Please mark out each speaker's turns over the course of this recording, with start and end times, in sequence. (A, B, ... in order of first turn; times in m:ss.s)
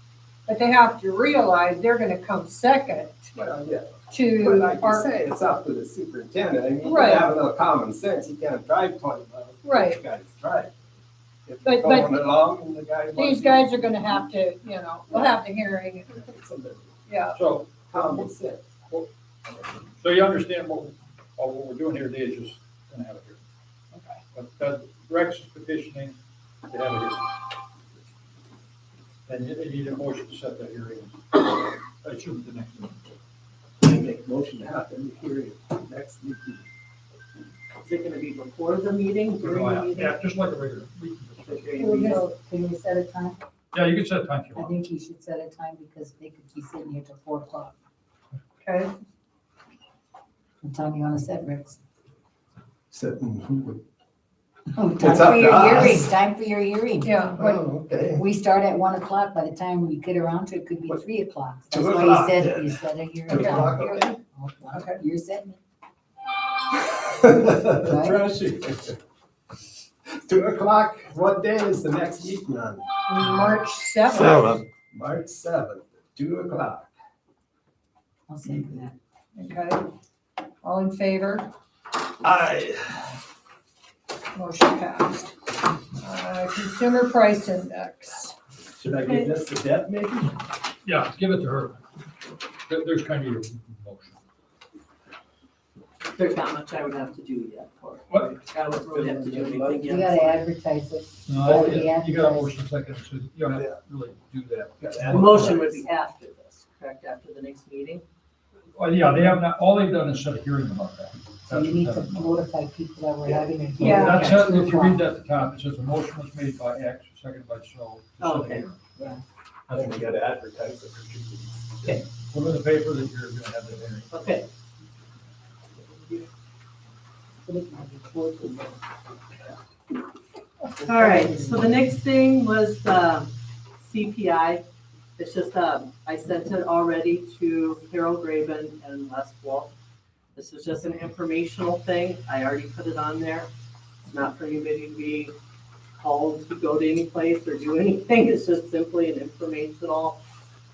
0:00.5-0:03.3 A
0:03.3-0:10.9 B
0:04.1-0:05.1 A
0:06.8-0:07.3 A
0:09.6-0:10.0 A
0:11.4-0:14.1 B
0:11.6-0:12.2 A
0:13.1-0:16.2 A
0:16.1-0:16.9 B
0:17.1-0:17.4 A
0:17.3-0:17.7 C
0:17.9-0:19.7 B
0:20.0-0:23.4 C
0:24.3-0:27.3 C
0:29.3-0:31.4 C
0:32.0-0:33.0 C
0:33.8-0:36.6 B
0:37.8-0:40.2 D
0:39.4-0:41.8 C
0:41.4-0:42.2 D
0:41.8-0:42.3 A
0:42.0-0:43.4 E
0:43.7-0:44.7 C
0:44.6-0:47.7 E
0:48.6-0:48.9 A
0:50.6-0:51.8 E
0:52.9-0:53.8 B
0:54.7-0:57.3 E
0:55.0-0:56.1 B
0:57.0-0:57.6 A
0:57.4-0:58.2 B
0:58.1-1:05.6 E
1:01.7-1:04.2 B
1:03.3-1:03.7 A
1:04.7-1:05.0 A
1:07.2-1:09.0 B
1:07.3-1:08.2 E
1:10.2-1:12.8 B
1:13.1-1:14.6 A
1:14.6-1:16.9 B
1:18.3-1:19.0 E
1:19.4-1:19.8 A
1:20.6-1:21.5 A
1:22.2-1:23.0 B
1:24.3-1:25.3 A
1:26.0-1:28.3 A
1:28.8-1:30.3 B
1:30.8-1:31.8 C
1:32.7-1:34.2 C
1:36.1-1:40.4 D
1:38.1-1:38.4 C
1:38.2-1:40.3 B
1:39.9-1:42.5 E
1:41.3-1:45.7 C
1:44.8-1:45.8 B
1:45.1-1:48.0 D
1:48.7-1:52.4 C
1:51.5-1:55.0 E
1:53.2-1:53.5 B
1:53.8-1:54.3 A
1:53.8-1:58.8 C
1:58.2-1:58.7 D
1:59.7-2:00.1 C
1:59.7-2:01.9 B
2:01.8-2:04.1 C
2:04.1-2:04.5 D
2:05.9-2:06.2 D
2:07.4-2:08.8 E
2:10.8-2:11.7 E
2:10.8-2:14.6 D
2:15.2-2:19.7 D
2:20.4-2:23.5 D
2:24.0-2:25.3 D
2:26.0-2:30.2 D